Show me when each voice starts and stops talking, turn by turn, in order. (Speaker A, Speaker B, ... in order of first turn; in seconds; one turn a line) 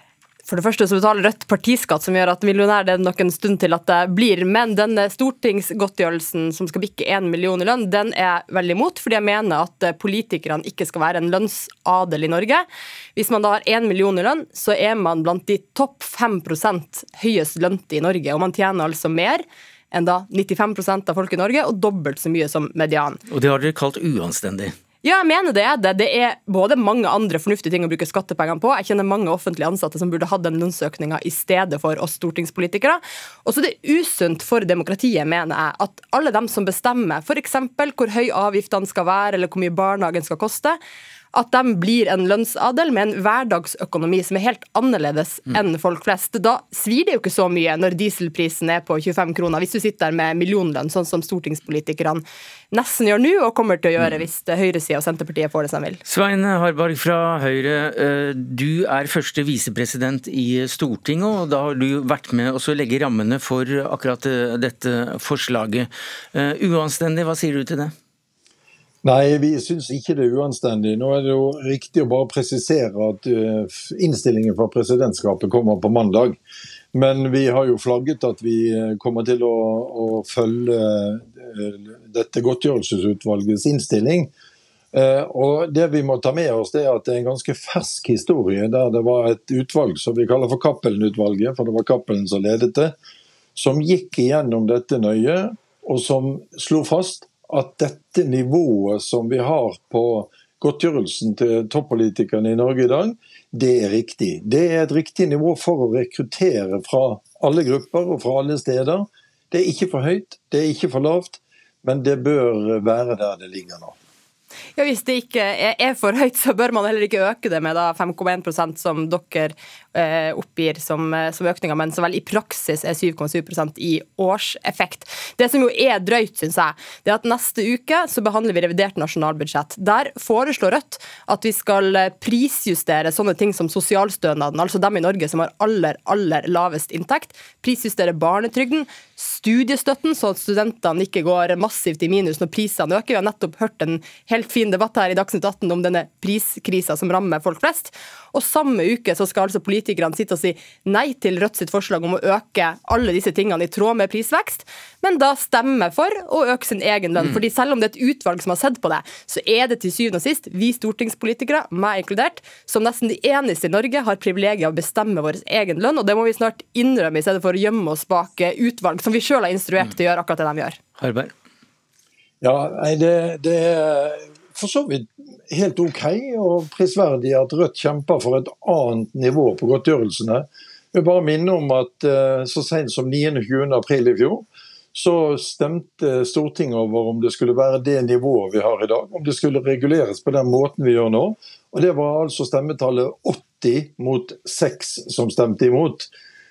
Speaker A: 0.5-23.2
Speaker B: 23.3-24.8
Speaker A: 25.0-40.8
Speaker A: 41.3-56.0
Speaker B: 56.0-67.9
Speaker C: 69.0-76.4
Speaker C: 76.9-84.3
Speaker C: 84.9-93.0
Speaker C: 93.6-114.0
Speaker A: 114.8-170.8
Speaker B: 171.0-171.3
Speaker C: 172.4-196.1